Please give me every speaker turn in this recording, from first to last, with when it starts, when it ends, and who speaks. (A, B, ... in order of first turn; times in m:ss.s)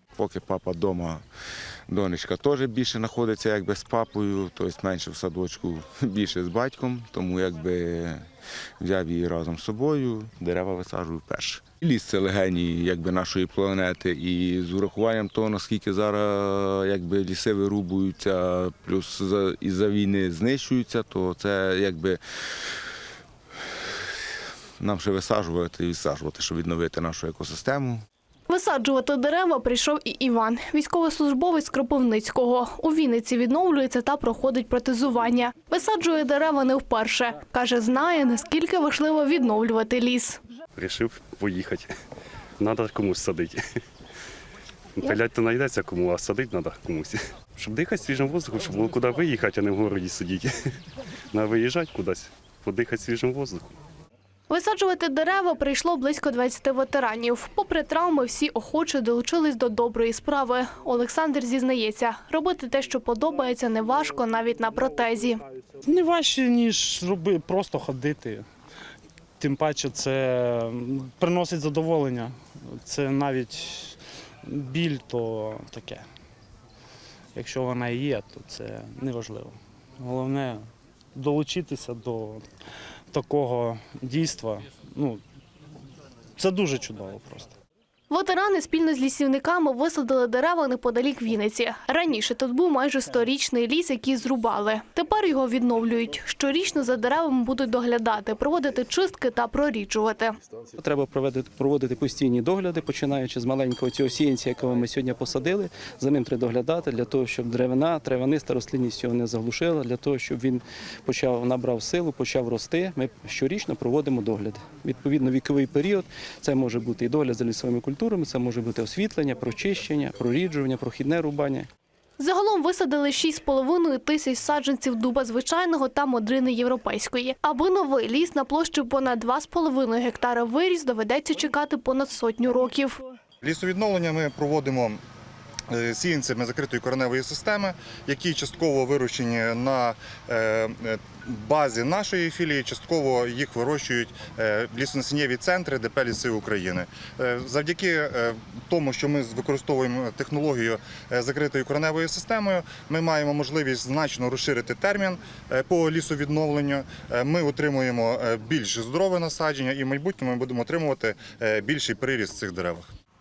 0:00.1-0:01.2 A
0:01.9-0:08.2 A
0:08.8-0:22.6 A
0:24.8-0:28.0 A
0:28.5-0:40.4 B
0:40.8-0:41.9 C
0:42.6-0:43.6 C
0:45.0-0:50.5 C
0:51.3-0:53.7 C
0:54.5-1:05.4 B
1:05.8-1:08.4 D
1:09.4-1:16.0 D
1:17.3-1:22.4 D
1:23.1-1:25.2 D
1:26.4-1:27.6 D
1:28.1-1:40.3 B
1:40.8-2:01.7 E
2:02.2-2:13.0 B
2:13.4-2:15.0 F
2:15.7-2:42.9 F